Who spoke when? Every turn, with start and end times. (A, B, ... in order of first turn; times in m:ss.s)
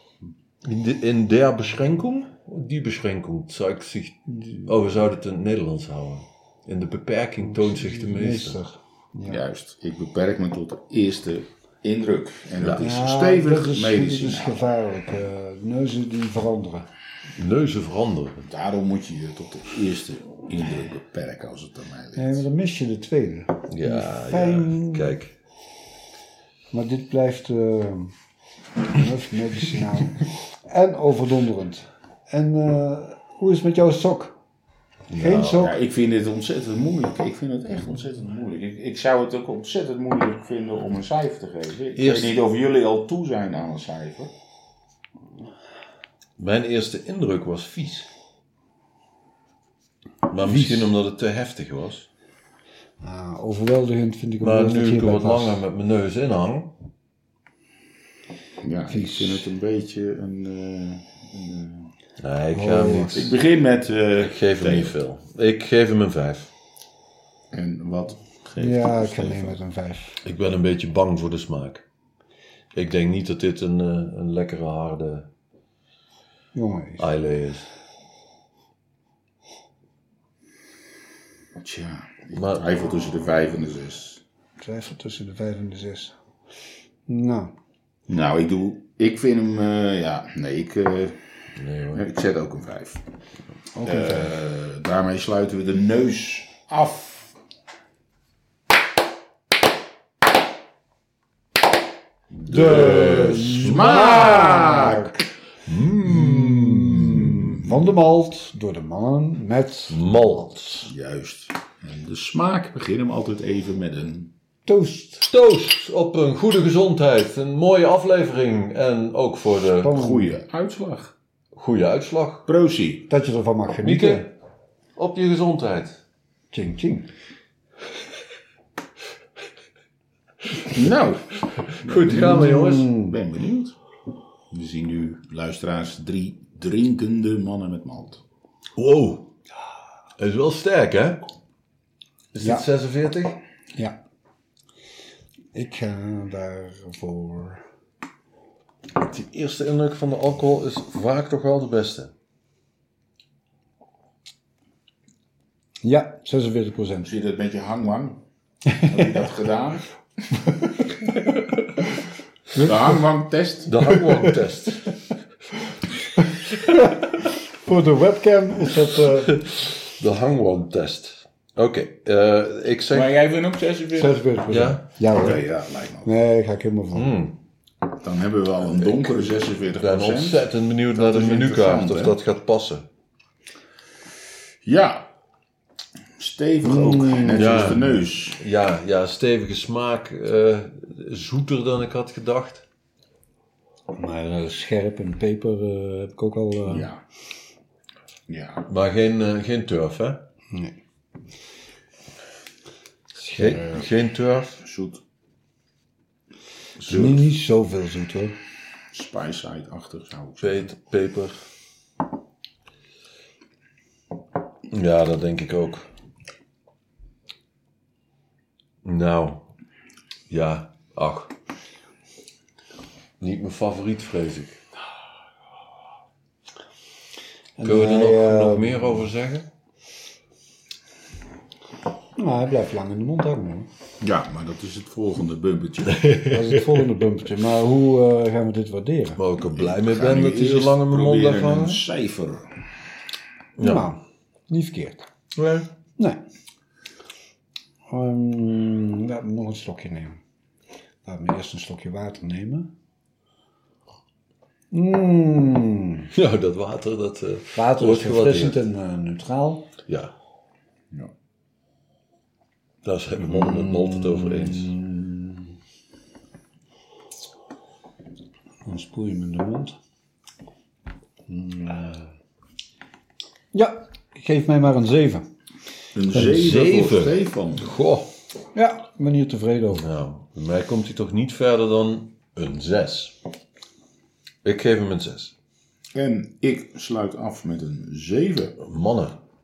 0:00.6-0:08.6 A
0:04.3-0:04.7 B
0:07.4-0:09.4 B
0:09.3-0:14.6 C
0:12.6-0:12.9 A
0:12.8-0:16.9 B
0:17.4-0:18.5 A
0:18.5-0:22.5 C
0:22.2-0:25.2 B
0:23.7-0:25.3 A
0:26.7-0:28.1 B
0:28.9-0:34.4 B
0:35.1-0:35.8 A
0:35.2-0:35.8 B
0:35.5-0:44.3 C
0:42.0-0:42.4 A
0:46.4-0:48.1 A
0:50.3-0:52.1 A
0:50.3-0:50.9 B
0:53.0-0:55.6 B
0:54.4-0:56.7 A
0:58.6-1:01.9 C
0:58.9-0:59.5 B
1:02.2-1:03.3 A
1:02.6-1:03.3 B
1:03.1-1:05.0 C
1:04.2-1:06.5 A
1:07.5-1:09.6 C
1:08.6-1:10.2 B
1:10.2-1:11.8 A
1:12.7-1:15.3 A
1:16.5-1:17.1 B
1:17.0-1:17.7 A
1:21.6-1:24.2 C
1:22.3-1:22.7 A
1:24.6-1:26.1 B
1:27.1-1:27.5 B
1:28.1-1:31.2 C
1:31.6-1:32.0 A
1:31.9-1:33.0 C
1:33.7-1:37.3 C
1:33.8-1:34.3 B
1:42.5-1:45.2 B
1:42.5-1:45.2 C
1:42.5-1:44.1 A
1:45.7-1:47.4 A
1:46.0-1:50.8 B
1:47.1-1:47.7 C
1:49.9-1:50.9 A
1:50.9-1:54.3 C
1:54.7-1:55.3 B
1:55.2-2:00.0 A
1:59.8-2:00.4 B
1:59.9-2:01.1 C
2:01.5-2:02.4 A
2:02.5-2:03.1 C
2:03.1-2:04.3 B
2:03.8-2:04.3 A
2:05.0-2:06.0 A
2:06.5-2:07.1 B
2:10.7-2:11.3 C
2:11.7-2:12.9 A
2:11.8-2:13.8 C
2:12.1-2:13.2 B
2:14.5-2:18.2 C
2:18.8-2:19.3 A
2:20.2-2:21.3 A
2:22.3-2:23.4 A
2:22.4-2:22.7 B
2:25.5-2:27.6 B
2:29.0-2:32.1 A
2:35.8-2:37.1 B
2:37.0-2:38.2 C
2:38.7-2:39.1 B
2:38.8-2:39.9 C
2:42.6-2:43.0 B
2:42.6-2:43.9 C
2:43.7-2:45.0 A
2:46.6-2:49.4 B
2:49.0-2:53.1 A
2:52.9-2:54.3 C
2:54.0-2:55.5 B
2:54.5-2:54.8 A
2:55.1-2:56.2 C
2:56.0-2:57.1 B
2:56.9-2:57.4 A
2:57.9-3:02.2 C
2:58.8-3:02.8 A
3:04.6-3:05.1 C
3:06.2-3:08.4 C
3:06.6-3:08.0 B
3:07.4-3:12.6 A
3:13.9-3:16.9 B
3:16.7-3:17.0 C
3:18.3-3:18.7 C
3:18.7-3:20.2 A
3:23.2-3:24.6 A
3:23.5-3:23.9 C
3:24.6-3:25.0 C
3:26.8-3:27.3 C
3:26.8-3:28.4 B
3:28.9-3:30.7 C
3:30.4-3:31.4 A
3:34.7-3:35.9 A
3:38.8-3:39.4 A
3:40.3-3:41.3 A
3:43.2-3:44.6 A
3:47.6-3:49.1 B
3:47.6-3:49.5 A
3:52.2-3:53.7 B
3:54.0-3:56.1 C
3:56.0-3:56.6 A
3:56.3-3:59.2 B
3:59.2-4:01.8 A
3:59.5-4:02.5 C
4:03.6-4:03.9 A
4:03.6-4:05.1 B
4:05.4-4:05.7 A
4:07.9-4:10.2 B
4:11.0-4:12.7 B
4:14.7-4:16.1 B
4:16.1-4:18.6 A
4:17.5-4:19.7 B
4:19.9-4:20.1 A
4:22.8-4:24.8 A
4:23.3-4:25.4 B
4:28.7-4:29.8 B
4:31.3-4:32.0 B
4:33.5-4:35.3 B
4:35.9-4:37.7 C
4:36.1-4:38.1 A
4:38.5-4:39.9 B
4:39.8-4:43.2 A
4:44.4-4:45.3 A
4:46.0-4:48.6 C
4:48.6-4:49.2 A